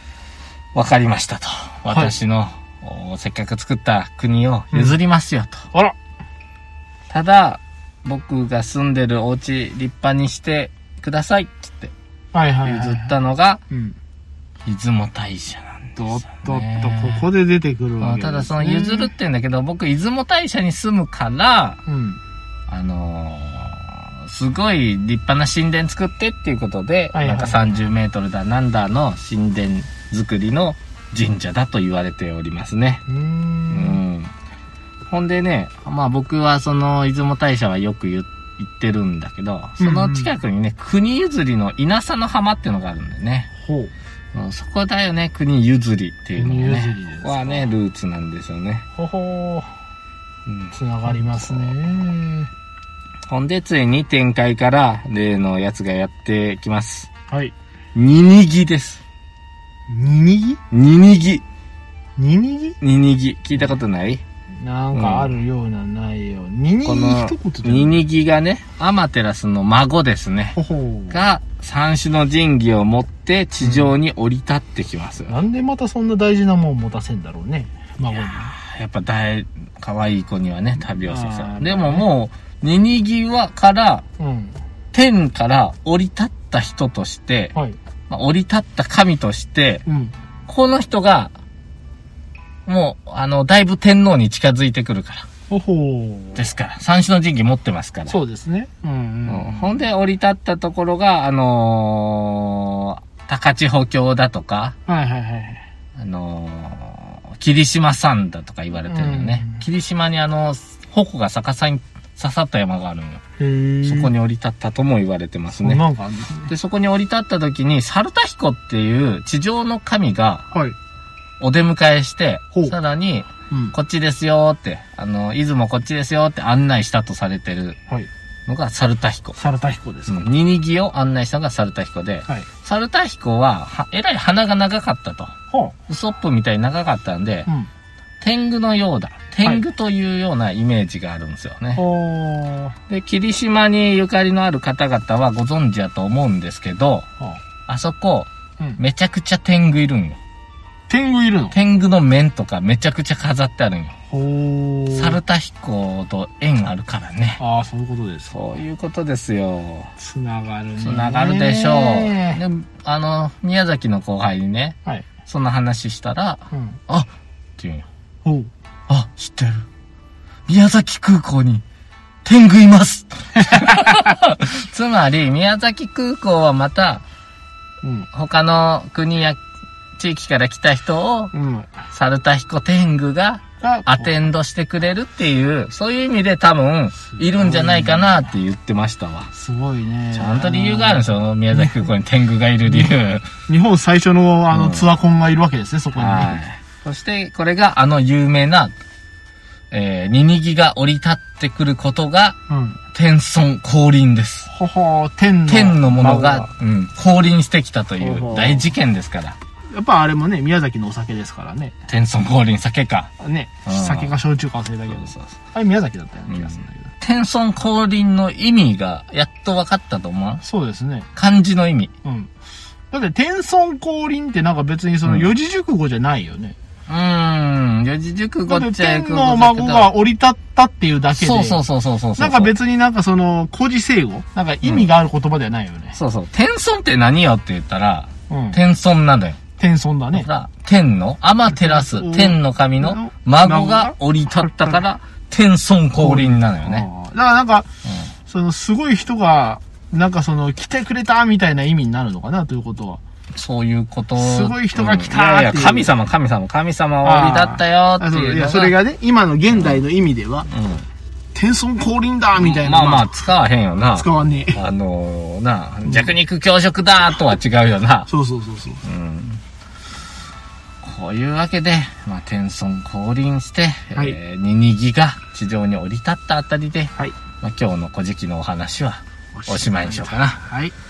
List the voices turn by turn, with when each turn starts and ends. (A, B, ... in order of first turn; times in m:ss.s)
0:00.7-0:05.7 A
0:01.9-0:02.1 B
0:07.1-0:11.9 A
0:12.3-0:13.1 B
0:12.6-0:13.6 A
0:13.7-0:14.0 B
0:14.6-0:17.2 A
0:16.0-0:19.1 B
0:18.0-0:21.8 A
0:21.8-0:22.2 B
0:22.7-0:33.0 A
0:27.1-0:27.7 B
0:33.1-0:34.0 B
0:33.7-0:34.3 A
0:35.1-0:43.5 A
0:39.8-0:40.3 B
0:43.6-0:43.9 B
0:44.3-0:48.8 A
0:46.4-0:47.7 B
0:48.9-0:49.7 B
0:50.4-0:51.8 A
0:50.7-0:52.5 B
0:53.3-0:57.1 A
0:57.3-0:57.5 B
0:57.9-0:59.0 A
0:59.9-1:00.6 B
1:00.7-1:01.4 A
1:02.2-1:02.8 B
1:02.8-1:04.2 A
1:04.6-1:08.0 B
1:04.9-1:05.4 A
1:06.8-1:10.6 A
1:10.5-1:11.2 B
1:11.1-1:15.3 A
1:13.6-1:13.9 B
1:15.3-1:18.5 B
1:18.1-1:24.0 A
1:20.9-1:22.1 B
1:24.2-1:24.6 B
1:24.9-1:27.5 A
1:28.1-1:29.8 A
1:29.8-1:30.1 B
1:30.5-1:31.3 A
1:32.6-1:35.3 A
1:35.5-1:36.5 B
1:36.4-1:38.2 A
1:38.1-1:39.8 B
1:39.3-1:44.8 A
1:44.9-1:45.6 B
1:46.0-1:53.2 A
1:48.8-1:49.6 B
1:53.4-1:54.1 B
1:53.8-1:55.8 A
1:55.5-1:56.5 B
1:56.5-2:00.5 A
2:01.4-2:07.8 A
2:03.5-2:03.7 B
2:08.5-2:09.4 A
2:09.4-2:10.2 B
2:10.1-2:15.3 A
2:15.5-2:15.8 B
2:15.9-2:17.5 A
2:18.2-2:21.8 A
2:21.8-2:22.8 B
2:22.9-2:27.1 A
2:27.7-2:30.2 A
2:30.9-2:31.6 B
2:31.5-2:33.9 A
2:34.1-2:35.2 B
2:34.9-2:37.4 A
2:37.4-2:38.6 B
2:38.3-2:39.9 A
2:40.0-2:42.4 B
2:40.8-2:47.9 A
2:46.5-2:46.8 B
2:48.2-2:48.5 B
2:48.9-2:49.6 A
2:50.5-2:51.6 A
2:52.2-2:57.0 A
2:57.8-2:58.1 B
2:58.1-2:59.4 A
3:00.0-3:01.3 A
3:01.3-3:01.8 B
3:01.9-3:09.3 A
3:03.6-3:04.1 B
3:07.1-3:08.2 B
3:09.3-3:11.9 B
3:10.1-3:13.3 A
3:12.7-3:12.9 B
3:13.5-3:16.4 B
3:14.5-3:14.9 A
3:15.9-3:18.7 A
3:19.7-3:22.4 A
3:22.5-3:22.8 B
3:22.9-3:24.5 A
3:24.5-3:26.5 B
3:25.5-3:29.4 A
3:28.0-3:28.7 B
3:29.7-3:31.7 B
3:31.9-3:33.1 A
3:33.2-3:36.9 B
3:33.6-3:34.1 A
3:34.9-3:35.3 A
3:36.3-3:40.4 A
3:40.4-3:41.1 B
3:41.1-3:41.9 A
3:42.0-3:42.3 B
3:42.9-3:46.6 B
3:45.0-3:45.3 A
3:46.9-3:49.9 A
3:48.5-3:51.6 B
3:51.1-3:52.5 A
3:52.2-3:56.0 B
3:54.6-3:54.9 A
3:55.9-3:59.4 A
3:58.3-3:58.6 B
3:59.6-4:00.3 B
4:00.1-4:06.8 A
4:01.5-4:04.8 B
4:06.0-4:07.7 B
4:08.2-4:13.0 B
4:13.3-4:18.8 A
4:14.2-4:15.9 B
4:17.0-4:20.5 B
4:19.5-4:19.8 A
4:20.5-4:20.8 A
4:21.3-4:23.1 B
4:22.4-4:28.1 A
4:24.0-4:24.6 B
4:25.8-4:26.1 B
4:28.1-4:28.8 B
4:28.8-4:29.4 A
4:30.8-4:40.4 A
4:39.3-4:40.7 B